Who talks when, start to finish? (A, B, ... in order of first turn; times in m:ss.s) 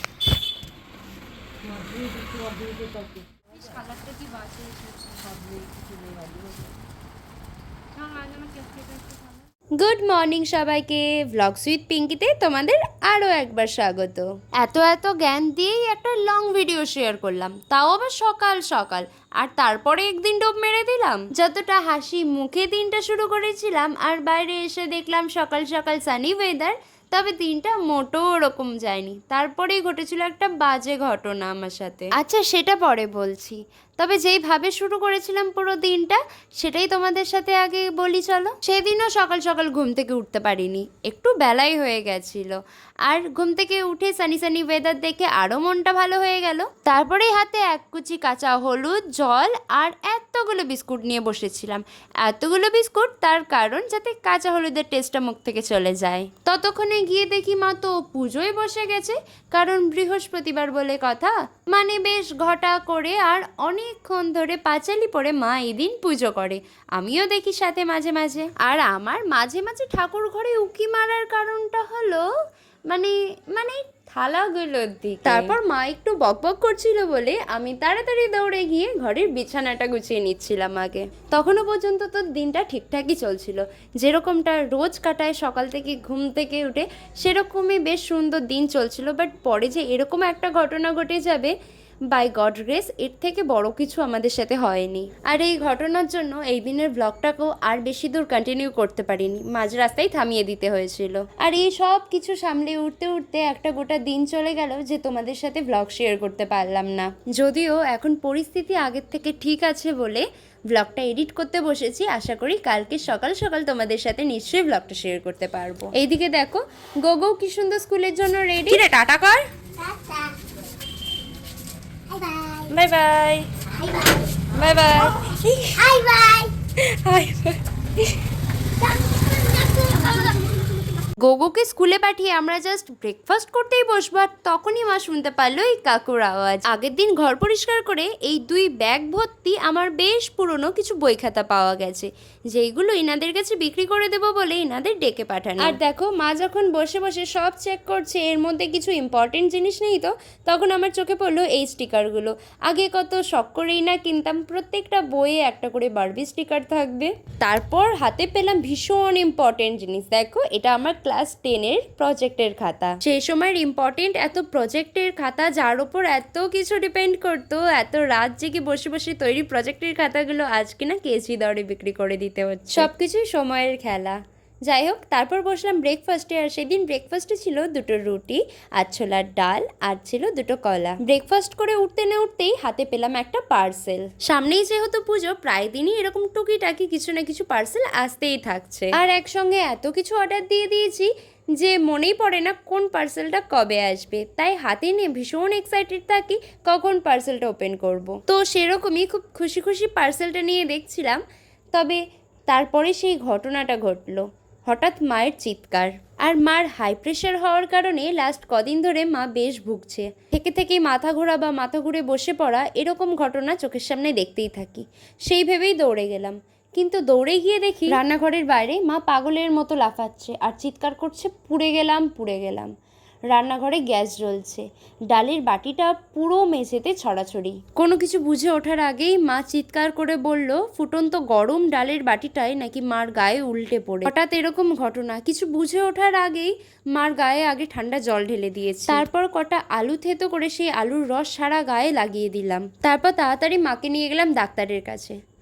0:01.8-0:03.2 A
0:04.0-0:04.6 B
0:05.2-0:06.6 A
0:08.1-0:09.2 C
0:09.8-1:12.2 B
1:12.9-1:31.6 B
1:15.2-1:15.6 C
1:32.1-1:59.3 B
1:58.8-1:59.4 C
2:02.8-2:03.4 B
2:04.6-2:05.6 B
2:04.6-2:06.4 C
2:07.0-2:07.4 B
2:11.2-3:21.2 B
3:21.7-3:42.7 B
3:43.3-4:05.2 B